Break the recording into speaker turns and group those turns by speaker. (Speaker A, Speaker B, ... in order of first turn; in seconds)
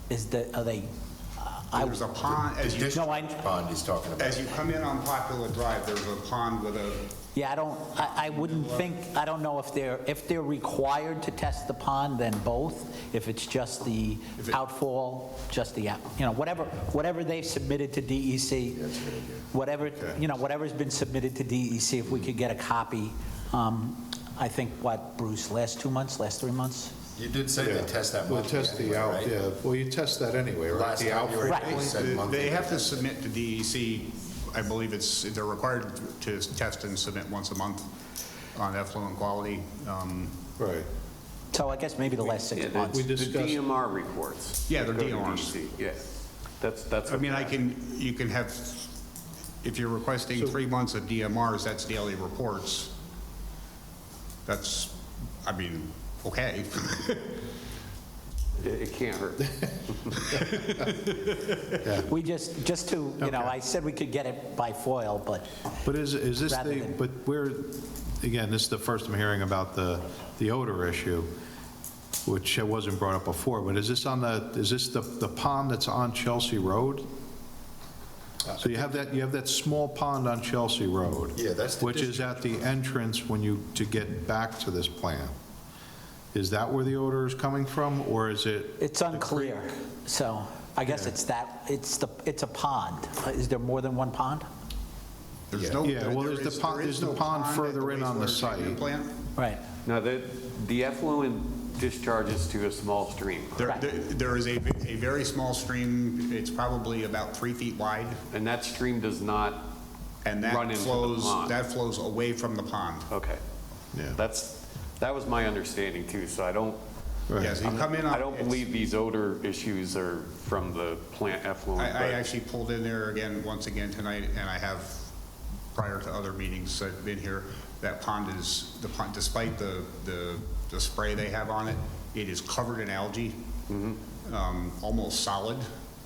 Speaker A: 0.1-2.1, 2.9-3.4, 7.3-18.9, 19.5-26.9, 31.4-31.8, 41.5-43.1, 62.0-65.7, 66.4-67.0, 88.8-94.5, 99.4-99.6
Speaker B: 1.7-3.3, 4.2-7.1, 8.0-8.8, 31.6-37.9, 38.5-40.4, 44.7-45.5, 47.0-49.0, 49.6-52.9, 54.5-57.4, 95.5-99.2, 103.6-108.3, 110.2-113.1, 117.4-118.6, 121.8-125.1, 125.7-133.4, 134.2-135.6
Speaker C: 2.2-4.6, 18.8-19.4, 27.1-29.3, 30.7-33.0, 81.3-82.6
Speaker D: 19.9-20.2, 27.6-31.9, 40.6-40.9, 42.8-43.6, 61.8-62.1, 63.2-63.5, 65.8-71.3, 72.3-77.1, 78.6-85.3, 86.3-89.5, 90.9-91.2, 95.7-98.8, 117.3-117.6
Speaker E: 42.5-47.6, 58.6-61.6, 99.8-103.8, 108.3-109.7, 110.4-111.6, 113.1-113.4, 114.0-116.8, 117.4-122.2, 133.7-134.0